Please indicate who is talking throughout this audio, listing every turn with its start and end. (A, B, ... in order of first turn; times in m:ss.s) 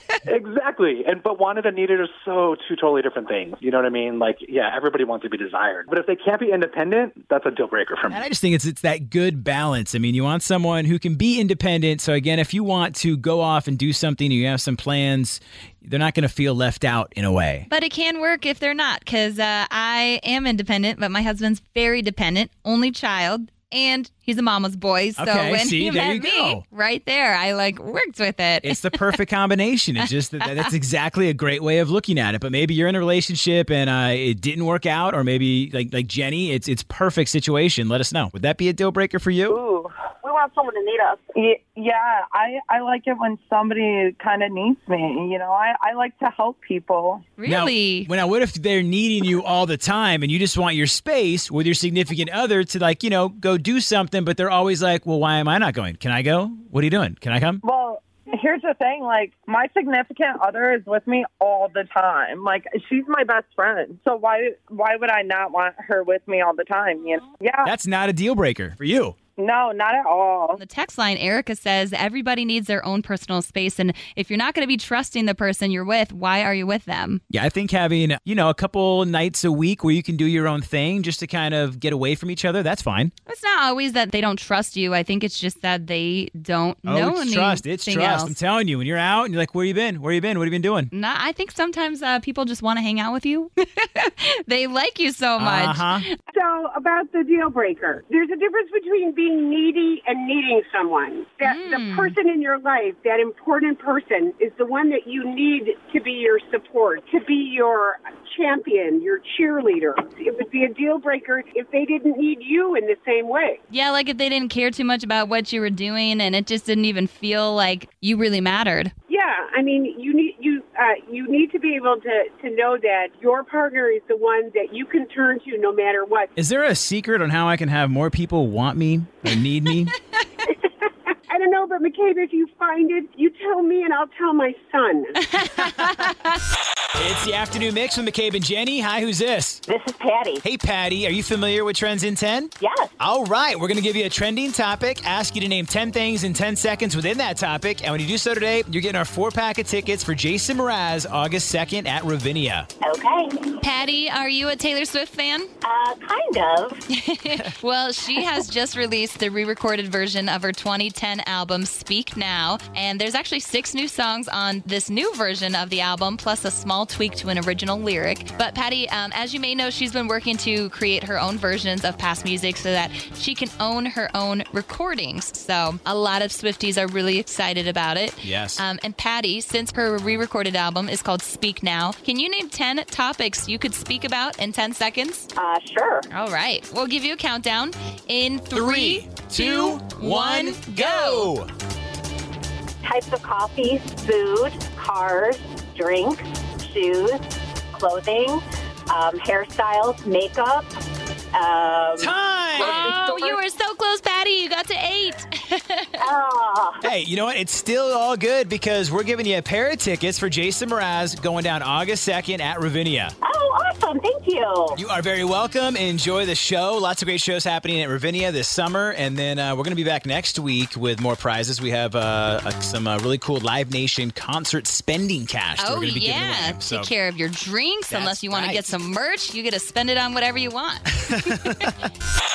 0:00.2-0:08.2 A
0:08.1-0:17.7 B
0:17.7-0:29.1 C
0:25.2-0:26.6 B
0:28.6-0:39.6 B
0:39.5-0:40.5 D
0:41.3-0:47.2 D
0:47.4-0:48.1 C
0:47.4-0:57.6 B
0:57.6-1:07.7 D
1:07.6-1:09.2 B
1:09.4-1:10.6 D
1:10.6-1:17.2 C
1:17.3-1:23.1 B
1:23.3-1:28.4 C
1:26.8-1:30.9 B
1:30.9-1:36.1 C
1:35.4-1:36.0 B
1:36.3-1:53.6 E
1:41.4-1:42.1 C
1:53.7-1:58.9 C
1:59.1-2:06.3 E
2:06.4-2:09.9 B
2:10.6-2:15.2 E
2:15.4-2:16.3 C
2:15.6-2:15.9 B
2:17.0-2:19.6 B
2:19.7-2:20.4 F
2:20.4-2:32.7 B
2:22.6-2:22.9 F
2:32.8-2:33.5 F
2:33.6-2:35.5 C
2:35.6-2:36.8 F
2:36.9-3:05.3 C
2:58.2-2:58.6 B
3:05.4-3:06.0 F
3:06.1-3:11.3 C
3:08.5-3:11.5 B
3:12.8-3:17.2 F
3:17.7-3:20.7 F
3:21.3-3:22.1 F
3:22.0-3:23.0 B
3:22.6-3:26.0 C
3:26.0-3:26.8 F
3:26.8-3:33.1 B
3:33.2-3:34.8 F
3:34.7-3:46.9 B
3:45.6-3:51.5 C
3:47.9-3:48.7 B
3:51.1-3:51.7 B